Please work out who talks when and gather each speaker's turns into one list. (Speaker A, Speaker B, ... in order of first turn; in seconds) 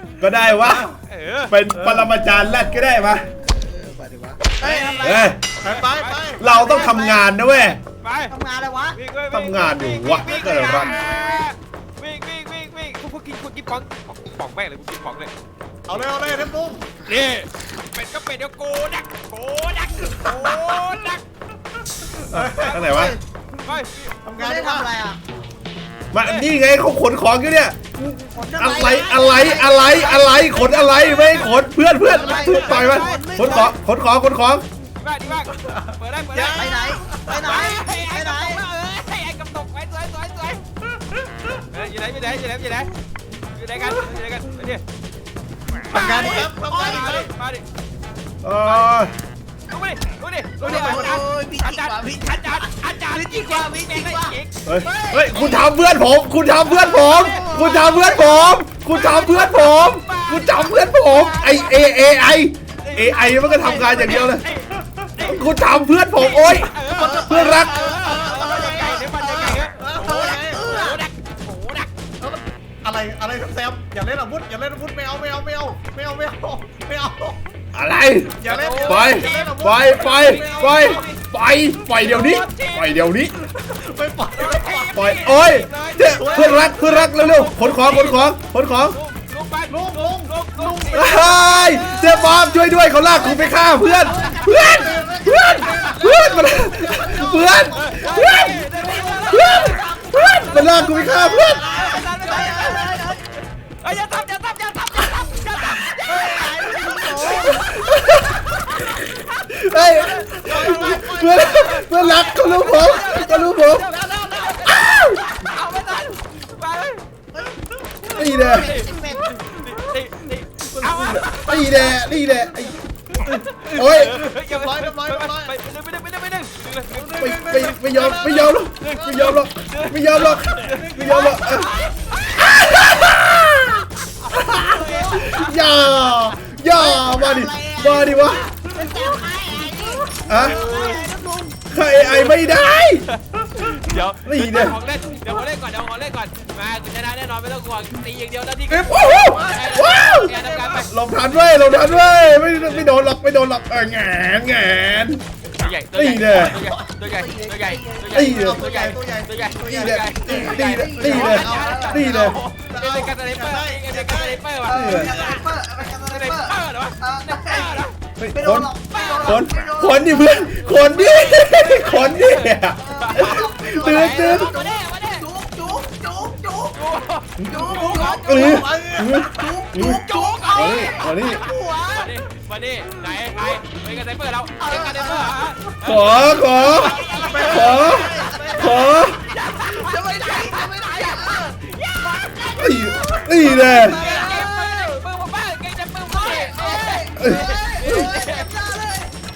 Speaker A: 0.2-0.9, 1.5-3.2, 5.0-5.4, 6.4-7.8, 9.3-11.0, 22.3-23.1, 26.1-34.6, 48.4-49.1, 54.7-64.5, 65.2-67.8, 77.7-83.4, 84.9-89.0, 90.9-98.6, 99.3-101.7, 107.5-108.4, 109.5-113.9, 114.7-115.2, 118.1-118.8, 121.0-122.8, 123.7-124.3, 127.2-131.7, 132.4-138.4, 140.3-140.6, 141.7-143.1, 144.3-144.8, 148.8-150.3, 150.9-155.2, 155.9-156.7, 158.1-158.6, 159.7-162.4, 164.7-165.1, 168.2-174.5, 177.4-180.0, 180.5-181.5, 185.8-189.2, 192.6-194.0, 197.2-198.0
Speaker B: 0.6-0.9, 1.7-2.1, 5.6-6.5, 15.9-16.9, 22.3-23.0, 24.2-24.9, 32.0-33.2, 35.6-37.5, 45.9-47.3, 50.6-51.2, 67.3-70.7, 72.2-77.4, 78.4-81.0, 83.6-85.0, 86.0-86.8, 89.7-91.7, 94.5-96.5, 110.7-111.4, 120.8-121.2, 123.2-125.5, 126.9-127.7, 130.5-131.7, 138.8-140.3, 148.7-150.9, 158.2-164.4, 177.7-179.3, 187.2-189.0, 193.4-194.5
Speaker C: 0.6-1.6, 4.6-6.9, 7.8-8.3, 8.9-15.3, 17.0-21.2, 22.6-23.1, 23.6-24.1, 26.2-26.5, 32.8-33.2, 35.0-36.7, 37.3-40.6, 41.7-42.9, 43.5-44.8, 45.9-47.6, 48.6-49.0, 49.7-54.6, 56.6-61.9, 62.8-65.5, 66.1-71.9, 78.5-81.2, 81.9-82.9, 84.3-92.4, 97.8-99.8, 100.4-103.1, 103.8-107.3, 108.6-117.1, 118.5-122.0, 123.2-132.6, 134.5-136.0, 140.4-141.1, 142.0-150.9, 152.6-152.9, 155.6-167.9, 168.9-169.5, 170.6-175.3, 176.7-178.2, 179.8-188.5, 189.3-192.6, 193.7-198.5
Speaker D: 3.4-5.4, 6.5-7.3, 8.3-9.0, 10.3-11.3, 24.4-25.2, 28.3-31.4, 32.1-33.8, 36.5-38.6, 45.9-47.0, 50.6-55.8, 57.2-57.9, 66.9-71.0, 91.5-103.2, 106.0-107.8, 114.1-114.8, 118.0-119.3, 131.3-131.9, 134.9-135.3, 136.7-141.6, 156.7-158.3, 160.2-162.0, 164.7-170.7, 172.8-176.8, 177.4-182.1, 184.6-185.5, 186.7-189.0, 189.6-191.6, 192.4-195.0, 196.1-199.1